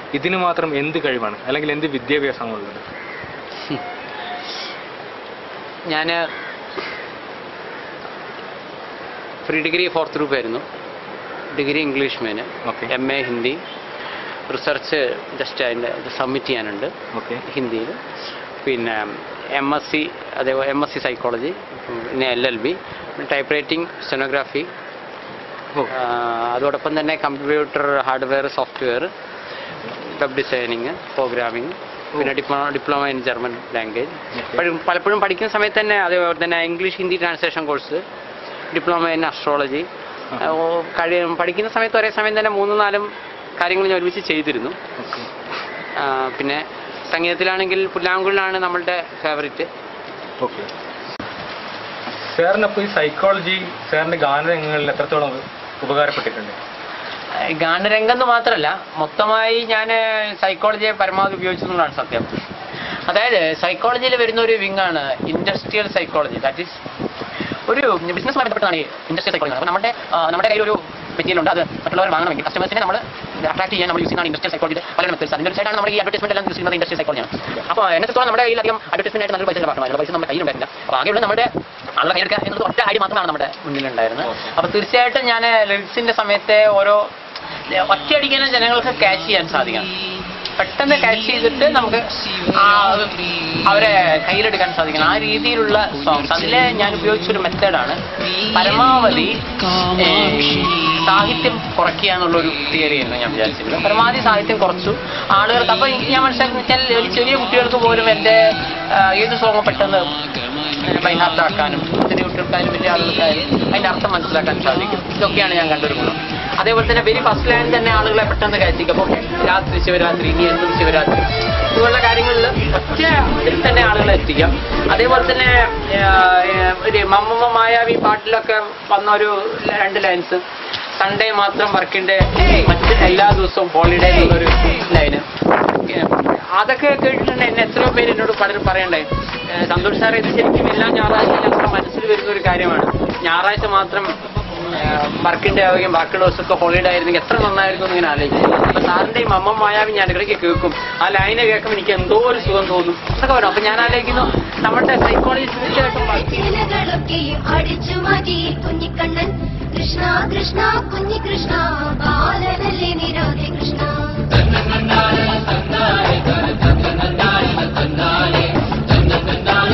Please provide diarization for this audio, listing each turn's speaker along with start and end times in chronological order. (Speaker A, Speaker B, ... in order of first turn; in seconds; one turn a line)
Speaker A: 0.1-2.8
Speaker B: 5.9-6.2
Speaker B: 9.4-10.6
Speaker B: 11.5-13.6
Speaker A: 12.6-12.9
Speaker B: 14.5-16.9
Speaker A: 17.1-17.4
Speaker B: 17.4-18.0
Speaker B: 18.6-24.7
Speaker B: 25.9-29.1
Speaker B: 29.9-38.0
Speaker A: 34.3-34.6
Speaker B: 38.7-44.8
Speaker A: 45.0-45.3
Speaker B: 46.0-49.7
Speaker A: 50.4-50.7
Speaker A: 52.3-56.5
Speaker B: 57.4-62.3
Speaker B: 63.1-66.8
Speaker B: 67.7-87.0
Speaker B: 87.7-89.9
Speaker B: 90.6-130.4
Speaker B: 131.0-156.6
Speaker C: 156.2-164.3